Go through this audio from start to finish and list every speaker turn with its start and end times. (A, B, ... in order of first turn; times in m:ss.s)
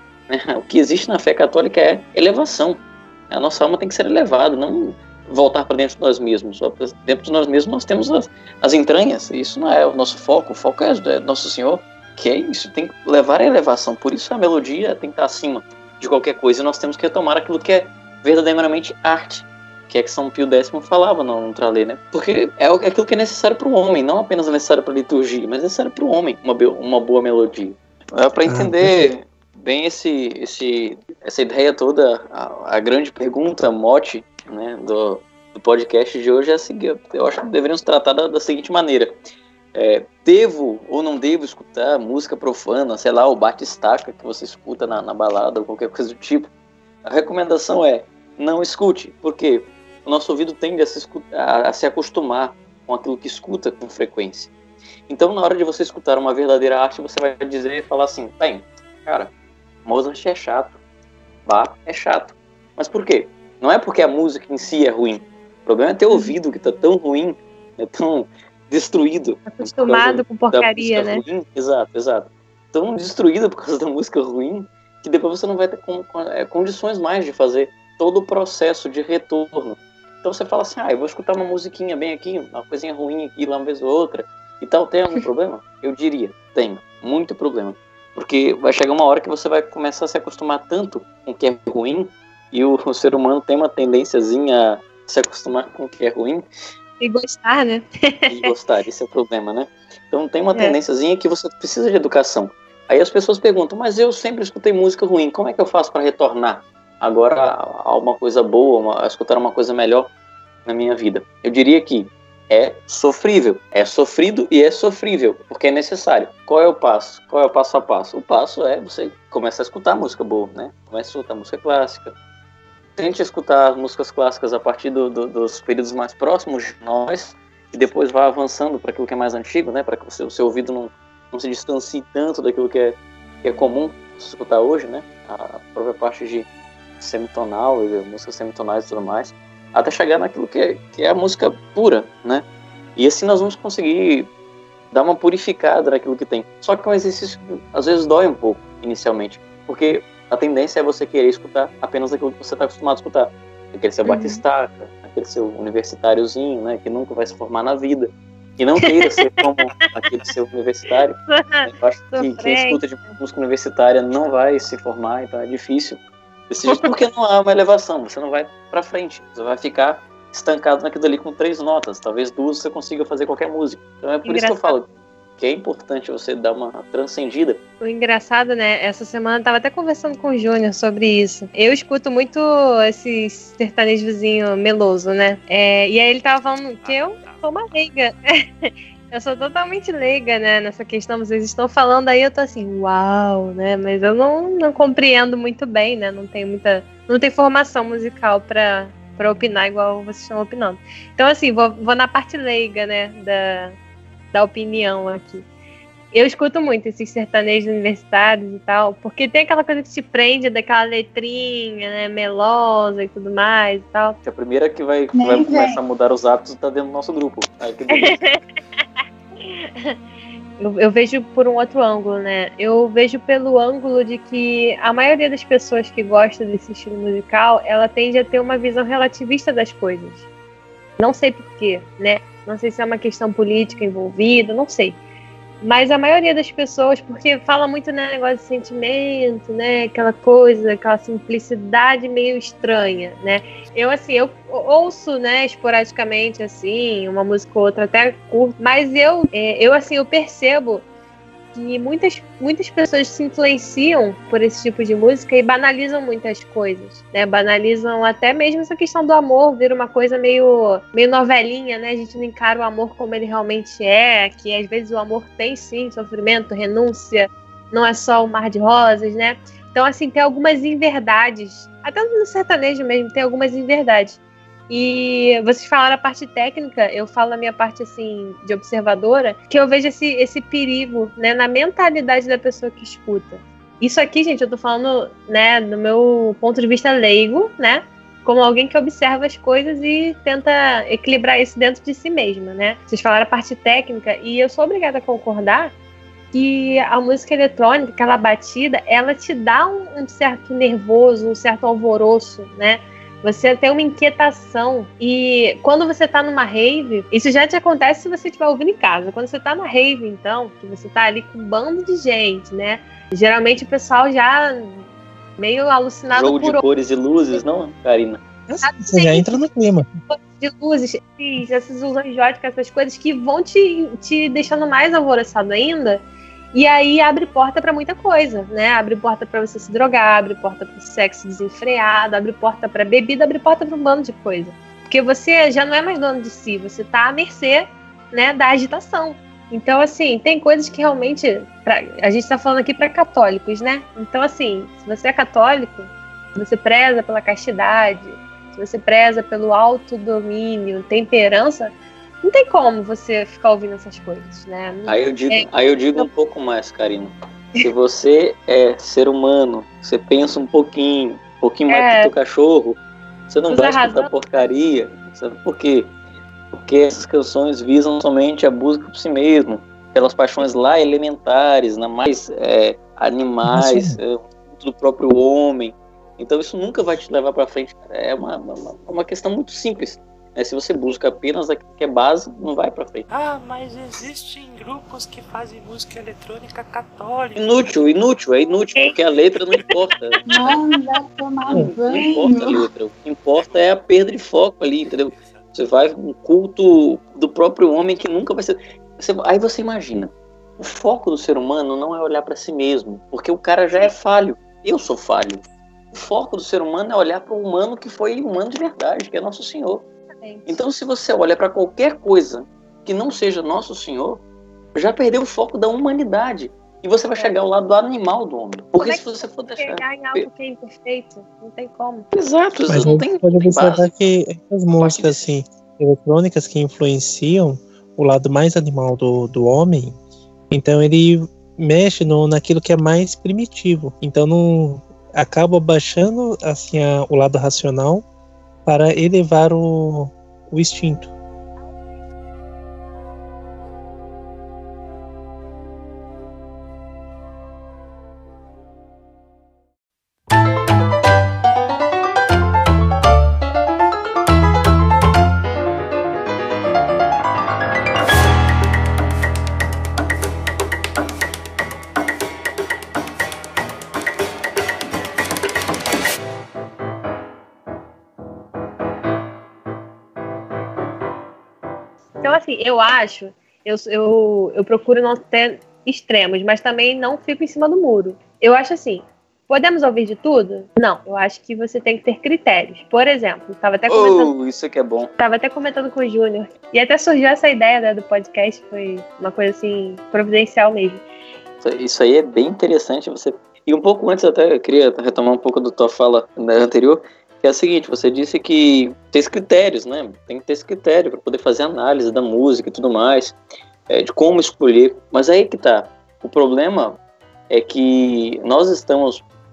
0:00.3-0:39.1 A
0:28.5-0:29.1 B
0:39.7-0:46.5 A
0:47.0-0:54.5 A
0:55.1-0:59.3 A
0:59.9-1:00.8 A
1:01.5-1:36.5 A
1:09.5-1:11.2 C
1:37.0-1:38.5 C
1:38.3-1:50.1 A
1:50.7-2:02.1 A
2:03.0-2:16.5 A
2:17.0-2:22.4 A
2:23.0-2:24.3 A
2:24.9-2:54.9 A
2:34.0-2:34.4 C
2:41.3-2:42.8 C
2:54.2-2:54.8 C
2:55.4-2:57.6 A
2:57.8-3:23.8 C
3:06.8-3:07.5 D
3:24.3-3:25.5 C
3:26.1-3:34.2 C
3:34.2-3:38.3 A
3:35.1-3:35.8 E
3:37.9-3:38.4 C
3:39.0-3:40.0 C
3:40.6-3:50.3 C
3:51.0-3:55.0 C
3:55.6-4:10.8 C
4:11.5-4:55.7 C
4:56.3-5:14.9 C
5:15.4-5:16.6 C
5:16.1-5:18.2 A
5:18.5-5:19.9 B
5:18.6-5:19.4 C
5:20.1-5:56.1 C
5:54.9-6:05.9 A
6:01.7-6:02.1 C
6:03.5-6:04.1 C
6:06.5-6:23.1 A
6:13.4-6:14.0 B
6:23.1-6:27.5 D
6:27.4-6:30.2 A
6:30.2-6:32.7 E
6:30.3-6:30.6 C
6:31.5-6:45.4 A
6:35.2-6:35.4 D
6:45.9-6:49.9 A
6:50.2-6:50.5 C
6:50.5-6:54.2 A
6:54.8-7:00.3 A
6:58.8-7:02.1 C
7:02.1-7:03.9 A
7:02.7-7:10.0 B
7:04.8-7:05.1 A
7:10.5-7:18.0 B
7:18.7-7:21.1 B
7:52.2-8:04.3 C
8:03.9-8:05.1 A
8:05.2-8:11.0 C
8:11.6-8:23.4 A
8:23.9-8:29.2 A